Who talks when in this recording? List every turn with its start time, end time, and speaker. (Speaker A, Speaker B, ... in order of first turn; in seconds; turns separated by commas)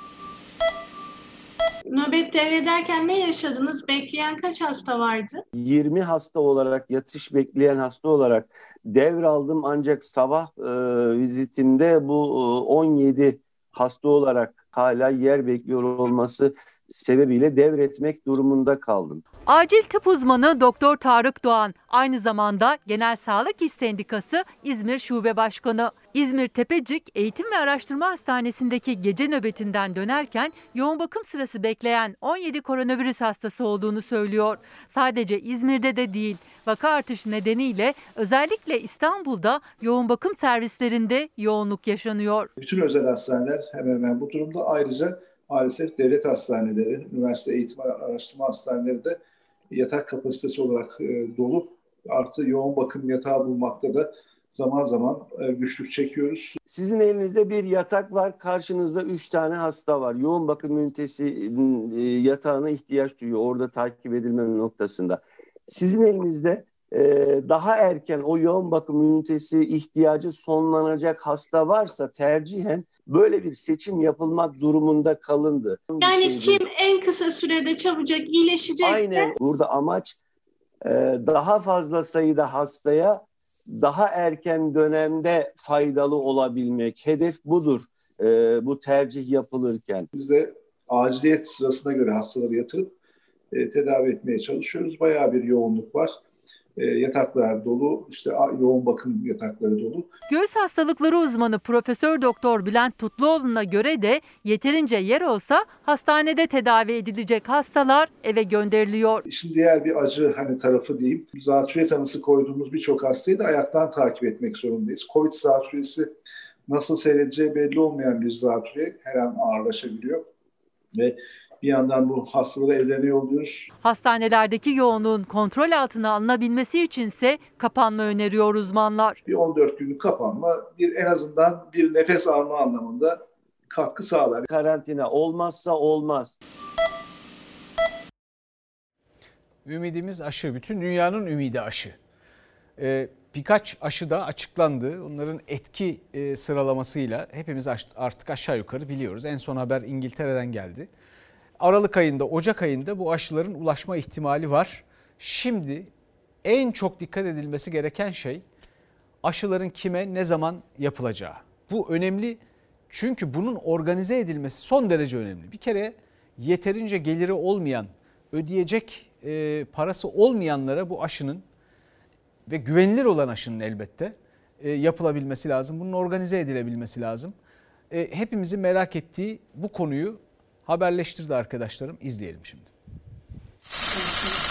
Speaker A: 1.9-5.4, Speaker B: 5.5-19.2, Speaker C: 19.4-42.5, Speaker D: 42.6-49.2, Speaker D: 49.7-56.6, Speaker B: 56.7-76.6, Speaker A: 76.0-79.3, Speaker B: 78.8-80.2, Speaker B: 80.8-83.2, Speaker B: 83.8-90.1, Speaker D: 90.1-92.9, Speaker D: 93.5-96.2, Speaker D: 96.8-100.1, Speaker C: 100.3-109.2, Speaker D: 109.2-116.1, Speaker D: 116.7-120.3, Speaker D: 120.9-123.7, Speaker C: 123.8-129.2, Speaker D: 129.2-134.4, Speaker B: 134.4-136.3, Speaker E: 139.6-141.9, Speaker E: 142.8-150.9, Speaker E: 151.6-155.9, Speaker E: 156.4-158.4, Speaker E: 159.2-171.4, Speaker E: 172.4-177.3, Speaker E: 177.9-182.7